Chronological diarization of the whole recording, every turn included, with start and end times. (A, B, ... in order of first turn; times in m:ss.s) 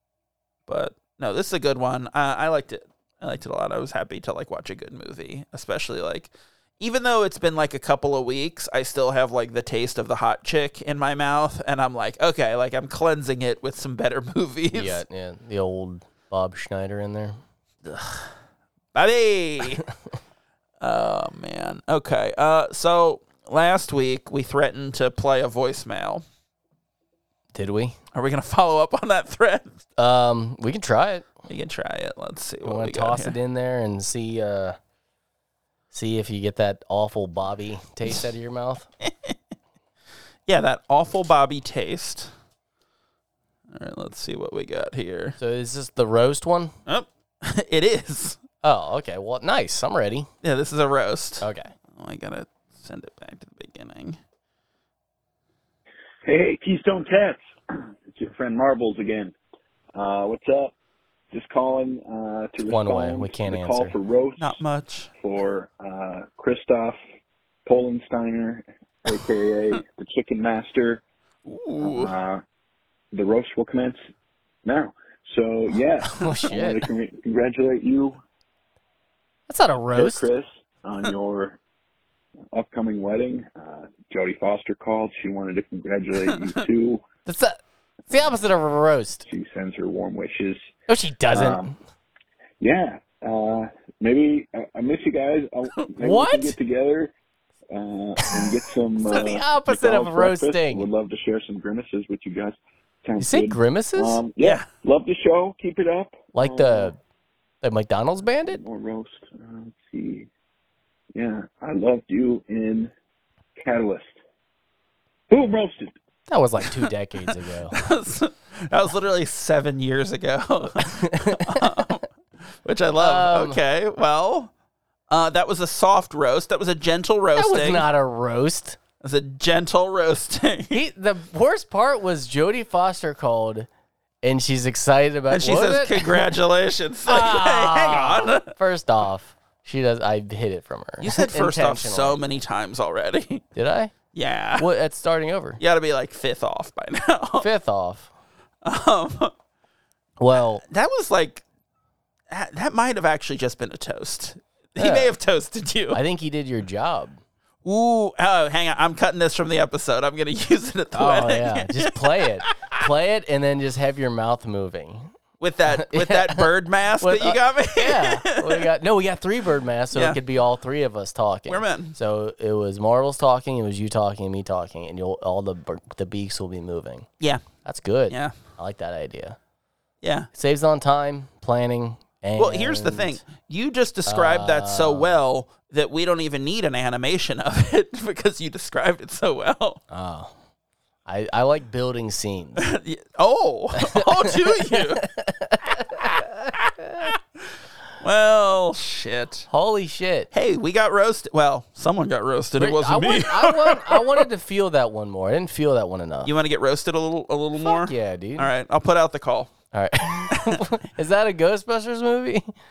0:00.7-0:15.0 A
0:14.7-0:17.4 B
0:17.8-0:18.3 A
0:18.9-0:19.9 A
0:20.8-0:26.2 A
0:27.5-0:28.0 B
0:28.1-0:29.8 A
0:30.0-0:31.3 B
0:31.5-0:33.4 A
0:32.6-0:34.8 B
0:35.9-0:38.9 B
0:39.1-0:39.4 A
0:40.5-0:42.3 A
0:43.7-0:45.4 A
0:45.4-0:46.7 B
0:46.9-0:48.4 A
0:48.6-0:50.3 B
0:50.4-0:54.2 A
0:51.4-0:51.7 B
0:56.2-0:59.3 C
1:00.0-1:00.7 C
1:01.3-1:04.6 C
1:02.6-1:04.0 B
1:04.4-1:05.1 A
1:05.2-1:07.0 C
1:07.6-1:11.0 C
1:11.5-1:12.2 A
1:11.8-1:12.4 C
1:13.1-1:14.0 C
1:14.6-1:18.2 C
1:16.1-1:16.9 B
1:19.5-1:20.3 B
1:20.0-1:21.6 C
1:22.5-1:27.0 C
1:27.3-1:27.6 B
1:28.1-1:29.2 B
1:29.3-1:30.6 C
1:30.9-1:31.8 B
1:31.3-1:31.7 C
1:32.6-1:37.1 C
1:36.0-1:36.6 B
1:37.7-1:46.9 C
1:39.1-1:40.9 B
1:43.2-1:44.2 B
1:44.4-1:44.7 A
1:46.4-1:47.0 B
1:47.6-1:48.6 B
1:48.5-1:50.3 C
1:51.1-1:52.9 C
1:53.6-1:54.2 C
1:55.3-1:55.9 C
1:56.3-1:57.8 B
1:57.7-2:02.1 A
2:00.8-2:01.8 B
2:02.6-2:04.5 A
2:03.0-2:03.6 B
2:05.1-2:07.9 A
2:07.4-2:08.8 B
2:09.0-2:10.8 A
2:10.7-2:13.7 B
2:14.2-2:16.3 B
2:15.3-2:18.5 A
2:17.1-2:22.3 B
2:21.0-2:23.4 A
2:23.6-2:23.9 B
2:24.1-2:24.7 A
2:24.6-2:25.6 B
2:25.6-2:27.5 A
2:27.4-2:28.1 B
2:28.6-2:29.3 A
2:30.2-2:30.6 B
2:30.6-2:31.4 A
2:32.3-2:36.0 A
2:34.8-2:35.2 B
2:35.9-2:37.2 B
2:37.6-2:42.8 A
2:40.9-2:45.1 B
2:45.4-2:48.7 A
2:45.7-2:46.5 B
2:47.0-2:57.1 B
2:49.9-2:50.2 A
2:51.5-2:52.0 A
2:57.6-2:59.4 B
3:00.0-3:00.3 A
3:00.3-3:03.2 B
3:02.4-3:09.8 A
3:04.1-3:05.2 B
3:09.9-3:10.3 B
3:11.1-3:12.6 B
3:12.6-3:15.0 A
3:13.8-3:17.1 B
3:16.0-3:17.2 A
3:18.0-3:19.5 A
3:19.5-3:20.3 B
3:20.3-3:24.3 A
3:22.6-3:26.3 B
3:26.2-3:29.5 A
3:27.6-3:28.5 B
3:29.7-3:32.5 B
3:30.1-3:30.6 A